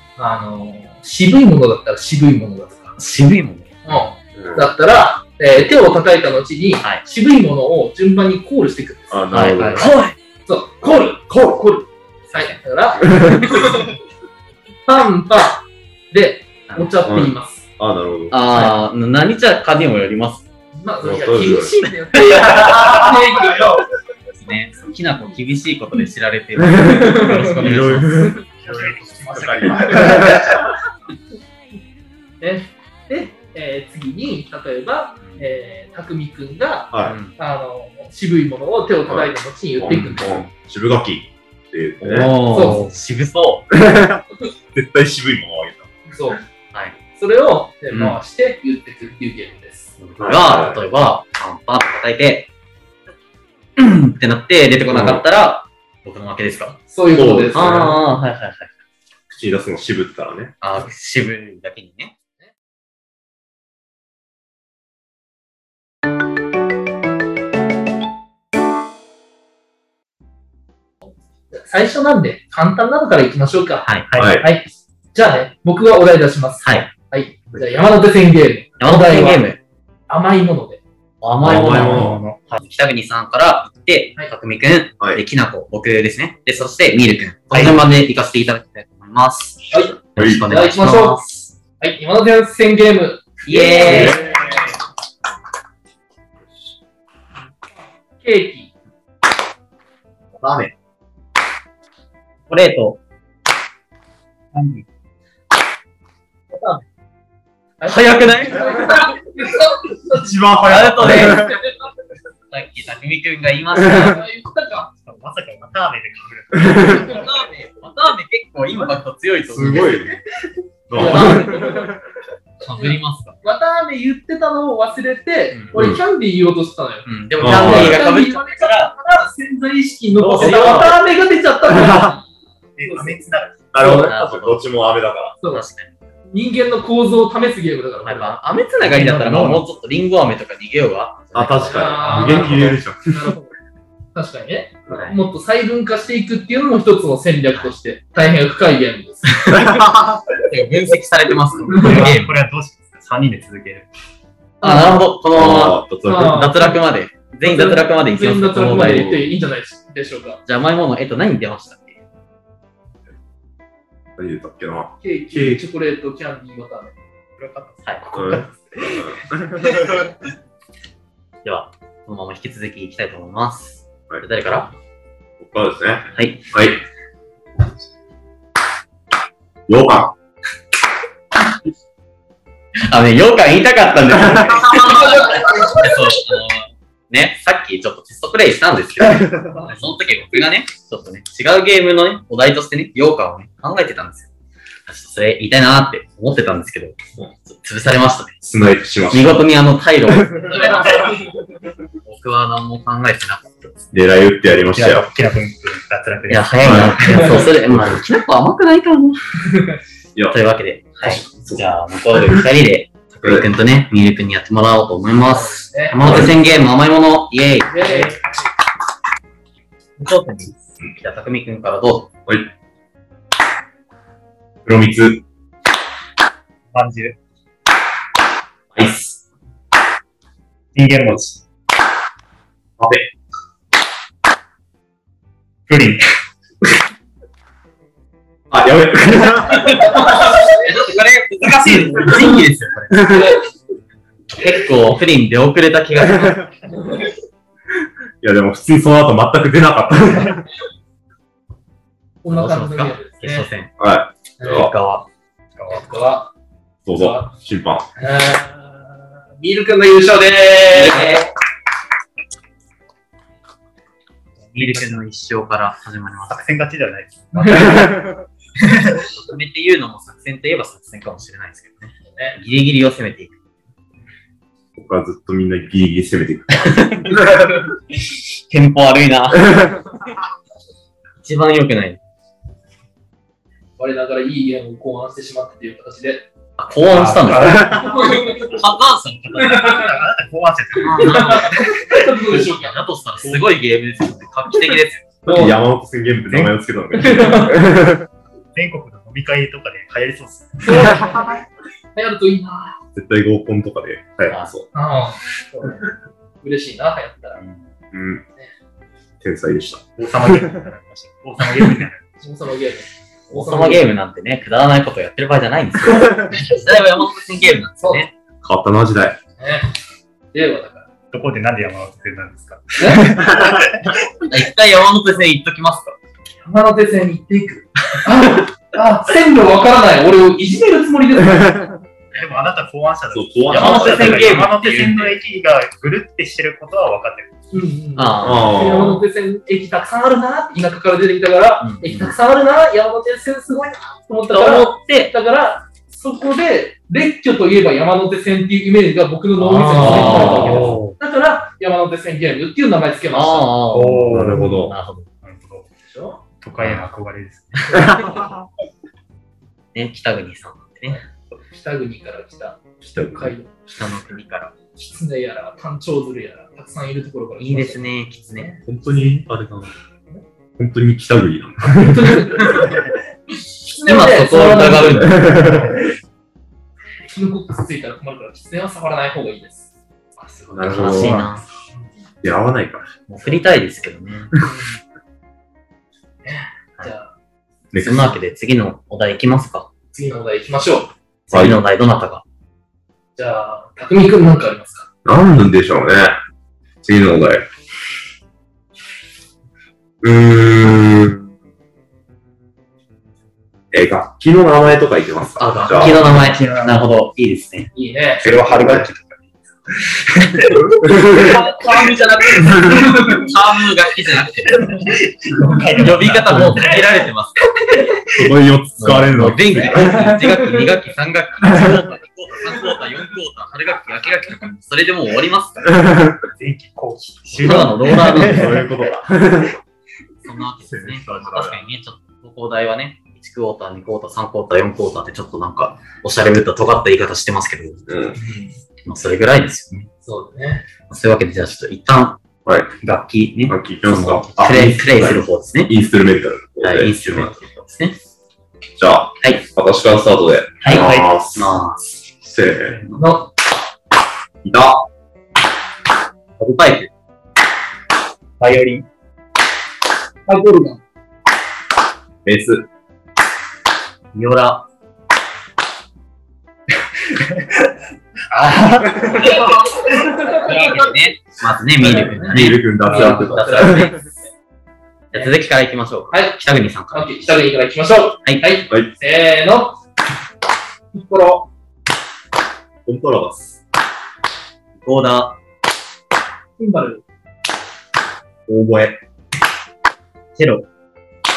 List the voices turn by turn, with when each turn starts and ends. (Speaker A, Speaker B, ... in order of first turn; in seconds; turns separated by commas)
Speaker A: 0.2-3.0, Speaker B: 3.0-3.8, Speaker A: 3.9-9.8, Speaker C: 4.4-4.7, Speaker C: 9.1-10.0, Speaker B: 9.3-10.2, Speaker D: 9.6-9.8, Speaker A: 10.5-13.9, Speaker C: 13.2-13.5, Speaker A: 14.9-17.7, Speaker C: 17.1-18.4, Speaker B: 18.3-20.5, Speaker A: 20.8-23.8, Speaker C: 21.0-21.7, Speaker C: 22.3-23.7, Speaker B: 24.3-28.4, Speaker C: 26.8-30.7, Speaker A: 26.8-27.5, Speaker D: 28.6-30.4, Speaker A: 29.2-30.4, Speaker A: 32.4-40.5, Speaker C: 36.9-37.2, Speaker B: 37.0-37.4, Speaker C: 39.1-42.4, Speaker B: 42.0-43.7, Speaker A: 42.5-42.9, Speaker C: 43.7-45.9, Speaker A: 46.1-46.4, Speaker A: 47.2-49.9, Speaker B: 47.9-48.2, Speaker B: 50.0-52.5, Speaker C: 50.2-50.8, Speaker B: 53.8-56.8, Speaker C: 54.9-55.2, Speaker A: 56.9-58.0, Speaker C: 57.1-58.0, Speaker B: 57.5-58.7, Speaker C: 59.3-60.5, Speaker B: 60.6-62.1, Speaker A: 71.5-79.4, Speaker D: 74.1-74.4, Speaker C: 74.2-74.5, Speaker B: 76.6-76.9, Speaker B: 78.8-79.6, Speaker A: 80.1-80.8, Speaker B: 81.2-91.5, Speaker C: 81.4-82.2, Speaker D: 81.4-82.4, Speaker D: 87.5-87.8, Speaker A: 89.7-91.3, Speaker C: 90.2-90.5, Speaker A: 91.8-94.7, Speaker B: 93.5-94.2, Speaker C: 93.8-94.6, Speaker A: 98.2-98.7, Speaker C: 100.4-100.7, Speaker B: 102.5-103.0, Speaker B: 104.5-104.8, Speaker A: 106.5-106.8, Speaker A: 107.8-110.2, Speaker B: 107.8-109.2, Speaker C: 110.1-111.6, Speaker B: 110.7-111.5, Speaker A: 111.0-111.7, Speaker B: 112.5-114.2, Speaker A: 113.9-114.9, Speaker D: 115.0-117.3, Speaker C: 116.6-116.9, Speaker B: 117.0-120.2, Speaker C: 119.5-120.2, Speaker C: 120.9-122.0, Speaker A: 120.9-121.9, Speaker B: 121.0-121.7, Speaker B: 122.6-123.4, Speaker A: 122.7-132.2, Speaker C: 125.7-126.0, Speaker B: 127.0-128.9, Speaker C: 127.4-128.0, Speaker B: 130.2-131.0, Speaker C: 130.4-130.9, Speaker C: 131.7-132.2, Speaker D: 132.8-133.7, Speaker A: 132.8-133.2, Speaker C: 133.7-135.4, Speaker A: 133.8-134.2, Speaker B: 133.9-134.6, Speaker B: 135.5-135.9, Speaker A: 136.3-138.4, Speaker B: 138.0-142.5, Speaker D: 138.8-139.6, Speaker C: 141.3-143.3, Speaker A: 141.6-143.5, Speaker A: 144.1-149.6, Speaker B: 144.9-145.2, Speaker C: 149.5-150.2, Speaker B: 150.5-152.4, Speaker A: 151.7-152.1, Speaker D: 151.8-153.9, Speaker A: 154.6-155.0, Speaker B: 154.6-159.2, Speaker C: 155.3-156.5, Speaker A: 156.1-156.8, Speaker A: 157.4-160.4, Speaker B: 160.5-162.0, Speaker C: 164.2-165.6, Speaker A: 165.0-166.9, Speaker D: 167.4-169.2, Speaker C: 168.2-170.1, Speaker B: 171.4-174.7, Speaker C: 175.4-176.8, Speaker B: 176.1-176.5, Speaker C: 179.7-180.1, Speaker B: 182.9-194.3, Speaker C: 184.2-184.7, Speaker A: 184.7-186.0, Speaker C: 189.2-189.7, Speaker B: 194.9-198.4, Speaker C: 198.4-199.4, Speaker B: 199.0-201.1, Speaker A: 200.4-201.2, Speaker B: 202.1-204.0, Speaker C: 203.9-205.1, Speaker D: 204.7-207.4, Speaker B: 206.3-209.2, Speaker C: 206.6-207.2, Speaker A: 207.1-207.4, Speaker A: 209.5-209.8, Speaker B: 210.3-218.2, Speaker C: 211.0-211.7, Speaker A: 215.3-216.2, Speaker C: 216.0-216.3, Speaker A: 217.7-218.2, Speaker B: 220.0-222.1, Speaker C: 224.7-225.2, Speaker D: 226.7-227.2, Speaker B: 228.8-229.2, Speaker D: 230.7-231.4, Speaker C: 232.8-233.1, Speaker D: 235.7-236.0, Speaker C: 238.5-240.1, Speaker B: 239.5-243.3, Speaker C: 242.9-243.2, Speaker B: 244.3-246.5, Speaker C: 248.2-250.5, Speaker A: 252.2-253.5, Speaker B: 252.3-253.7, Speaker C: 253.8-254.7, Speaker A: 254.4-254.7, Speaker B: 254.4-255.1, Speaker D: 255.6-255.9, Speaker A: 255.7-256.3, Speaker C: 256.9-257.9, Speaker A: 256.9-257.3, Speaker A: 258.0-258.9, Speaker A: 259.4-261.3, Speaker B: 260.7-261.3, Speaker D: 264.4-265.0, Speaker B: 264.6-266.5, Speaker D: 266.3-268.1, Speaker A: 267.4-268.0, Speaker B: 269.1-273.4, Speaker C: 274.8-277.5, Speaker B: 276.6-277.2, Speaker B: 278.5-279.8, Speaker B: 281.2-282.0, Speaker A: 283.8-286.3, Speaker B: 286.6-287.8, Speaker D: 286.9-288.2, Speaker C: 287.4-287.8, Speaker A: 287.7-288.5, Speaker B: 288.4-289.8, Speaker A: 289.4-289.9, Speaker D: 289.5-291.4, Speaker B: 290.8-295.1, Speaker A: 291.0-292.8, Speaker C: 295.2-298.1, Speaker A: 295.3-295.6, Speaker D: 296.3-296.6, Speaker A: 297.0-297.6, Speaker D: 298.5-301.2, Speaker A: 300.6-301.4, Speaker A: 301.9-302.8, Speaker C: 302.9-304.7, Speaker A: 304.7-305.8, Speaker A: 306.4-307.4, Speaker B: 307.4-307.7, Speaker C: 307.9-308.2, Speaker C: 309.2-310.6, Speaker D: 310.0-312.1, Speaker A: 312.2-313.8, Speaker B: 313.3-318.1, Speaker C: 316.0-316.4, Speaker A: 317.8-318.1, Speaker C: 318.4-319.2, Speaker A: 319.4-319.7, Speaker A: 320.3-320.9, Speaker D: 321.1-324.0, Speaker A: 322.8-323.1, Speaker C: 323.1-323.7, Speaker B: 324.3-326.0, Speaker A: 326.4-331.8, Speaker D: 332.1-337.3, Speaker C: 333.1-334.4, Speaker B: 333.5-335.1, Speaker A: 333.6-334.1, Speaker A: 337.5-353.5, Speaker B: 338.0-338.8, Speaker C: 338.2-339.0, Speaker B: 341.6-342.1, Speaker B: 344.3-345.1, Speaker B: 349.4-350.8, Speaker D: 349.8-351.0, Speaker B: 353.1-355.1, Speaker D: 353.7-354.6, Speaker C: 354.1-354.8, Speaker D: 355.2-355.7, Speaker A: 355.9-356.2, Speaker D: 356.4-357.9, Speaker B: 356.6-356.9, Speaker C: 357.7-358.5, Speaker B: 359.7-361.0, Speaker A: 361.5-363.5, Speaker C: 362.9-363.3, Speaker B: 363.7-364.5, Speaker A: 364.8-368.6, Speaker B: 367.4-368.6, Speaker C: 368.6-369.7, Speaker C: 370.6-372.8, Speaker A: 371.7-372.8, Speaker A: 373.6-375.1, Speaker B: 373.8-375.4, Speaker C: 374.9-375.9, Speaker A: 377.1-379.7, Speaker B: 380.3-381.5, Speaker C: 380.6-381.2, Speaker D: 380.9-381.4, Speaker C: 382.2-382.9, Speaker B: 383.1-384.3, Speaker A: 384.4-384.8, Speaker A: 386.2-387.1, Speaker C: 387.7-388.2, Speaker B: 387.8-389.7, Speaker A: 389.9-390.9, Speaker B: 391.3-392.2, Speaker C: 391.3-391.6, Speaker A: 393.2-394.9, Speaker C: 395.1-396.2, Speaker C: 396.8-397.5, Speaker C: 400.0-401.3, Speaker C: 403.7-406.1, Speaker B: 405.4-407.7, Speaker D: 405.8-406.9, Speaker A: 407.8-408.2, Speaker D: 408.2-411.2, Speaker C: 408.2-408.9, Speaker C: 410.6-411.4, Speaker B: 411.0-414.8, Speaker A: 411.1-411.4, Speaker A: 412.5-413.2, Speaker D: 414.5-416.8, Speaker B: 415.8-417.4, Speaker C: 418.1-420.3, Speaker B: 418.8-425.7, Speaker C: 425.7-426.2, Speaker D: 426.4-428.7, Speaker B: 427.3-428.6, Speaker C: 427.5-429.6, Speaker B: 430.2-437.8, Speaker C: 430.6-431.6, Speaker C: 437.9-438.2, Speaker A: 438.2-438.5, Speaker B: 438.9-439.9, Speaker A: 440.0-440.6, Speaker B: 440.9-442.2, Speaker C: 442.5-442.7, Speaker B: 442.8-445.7, Speaker C: 443.5-447.3, Speaker B: 446.6-448.0, Speaker C: 448.8-451.5, Speaker B: 450.6-452.0, Speaker D: 450.7-451.1, Speaker C: 452.2-452.9, Speaker A: 453.0-453.3, Speaker C: 454.4-454.9, Speaker B: 456.4-456.9, Speaker D: 458.4-458.9, Speaker A: 460.3-460.8, Speaker C: 462.2-462.7, Speaker B: 464.1-464.6, Speaker D: 467.1-467.7, Speaker D: 468.3-469.9, Speaker A: 469.1-470.9, Speaker B: 470.4-474.0, Speaker A: 471.8-474.0, Speaker C: 472.2-474.0, Speaker B: 475.1-477.2, Speaker A: 476.1-476.4, Speaker A: 476.9-479.8, Speaker B: 478.2-478.5, Speaker A: 480.9-481.5, Speaker C: 482.9-483.6, Speaker B: 484.8-485.4, Speaker A: 486.6-487.0, Speaker C: 488.5-489.0, Speaker B: 490.4-490.6